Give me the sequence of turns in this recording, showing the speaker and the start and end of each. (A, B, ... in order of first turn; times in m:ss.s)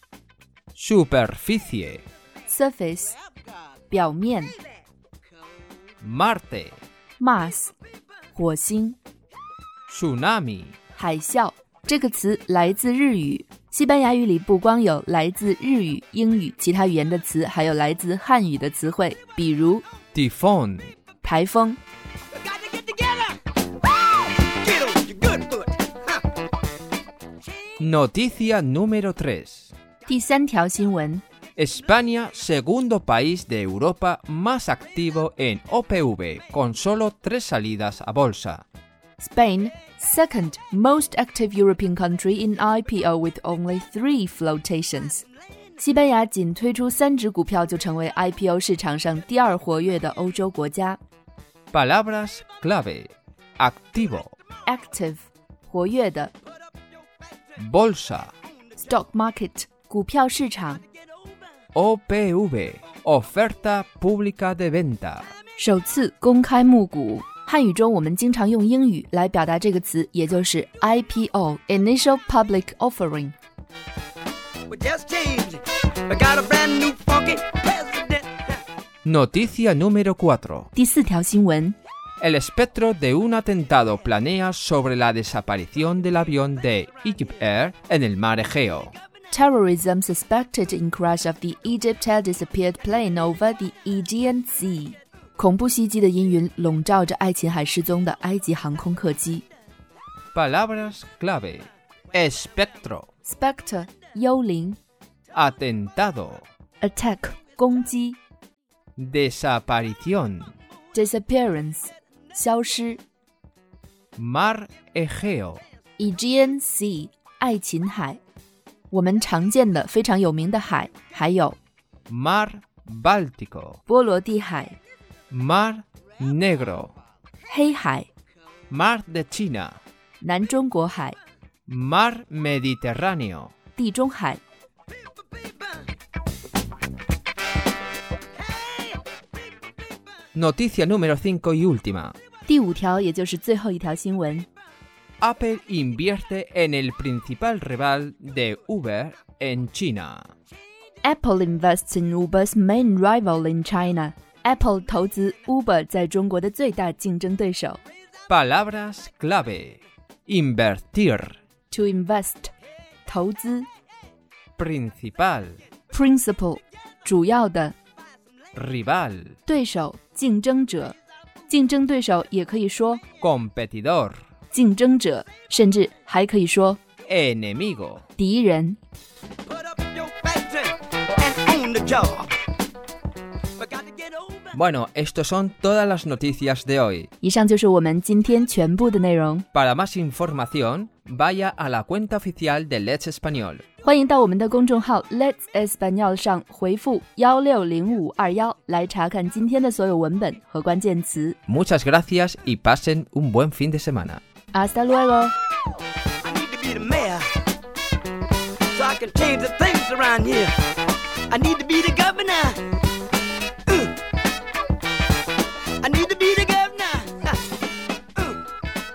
0:00.8-0:02.0 A
0:02.5-0:03.2 B
0:03.9-0:04.6 B
0:06.0-0:06.8 A
0:07.2-0:07.8 B
0:08.3-0:09.0 B
0:09.9-0:10.8 A
0:10.9-0:19.8 B
0:20.1-0:20.9 A
0:21.2-0:21.8 B
0:22.5-0:23.4 C
0:24.2-0:26.2 C
0:27.8-0:29.7 A
0:30.1-0:31.2 B
0:31.6-0:38.6 A
0:39.2-0:45.2 B
0:45.8-0:51.0 B
0:51.7-0:54.3 A
0:54.7-0:56.3 B
0:57.6-0:58.3 A
0:58.8-1:00.8 B
1:01.7-1:05.3 A
1:05.6-1:13.4 B
1:14.7-1:18.6 C
1:19.0-1:20.7 A
1:20.8-1:21.8 B
1:22.2-1:29.0 A
1:29.3-1:39.5 B
1:40.3-1:43.1 A
1:43.2-1:44.8 B
1:45.3-1:46.5 A
1:46.8-1:48.2 B
1:49.0-1:50.5 A
1:50.9-1:53.0 B
1:54.2-1:55.6 A
1:56.0-1:58.2 B
1:58.9-2:01.6 B
2:02.1-2:03.8 A
2:03.9-2:04.8 B
2:05.3-2:07.0 A
2:07.5-2:08.1 B
2:08.7-2:09.8 A
2:10.2-2:11.2 B
2:11.7-2:13.5 A
2:13.8-2:14.4 B
2:20.3-2:22.2 A
2:22.5-2:24.5 B
2:25.2-2:30.3 A
2:31.0-2:37.8 B
2:38.3-2:41.4 A
2:41.7-2:42.5 B
2:43.0-2:43.7 B
2:44.6-2:45.6 A
2:45.9-2:47.8 B
2:48.6-2:49.4 A
2:49.5-2:51.0 B
2:51.5-2:53.0 B
2:53.2-2:54.2 A
2:54.5-2:56.8 B
2:57.0-2:58.0 A
2:58.2-2:58.8 B
2:59.5-3:02.3 C
3:03.6-3:04.4 C
3:04.5-3:07.1 A
3:07.2-3:09.5 B
3:09.5-3:13.6 A
3:13.8-3:21.4 B
3:21.5-3:24.2 A
3:24.5-3:25.3 B
3:26.2-3:27.3 C
3:28.7-3:30.8 C
3:31.3-3:32.7 C
3:33.7-3:34.0 C
3:35.8-3:37.5 C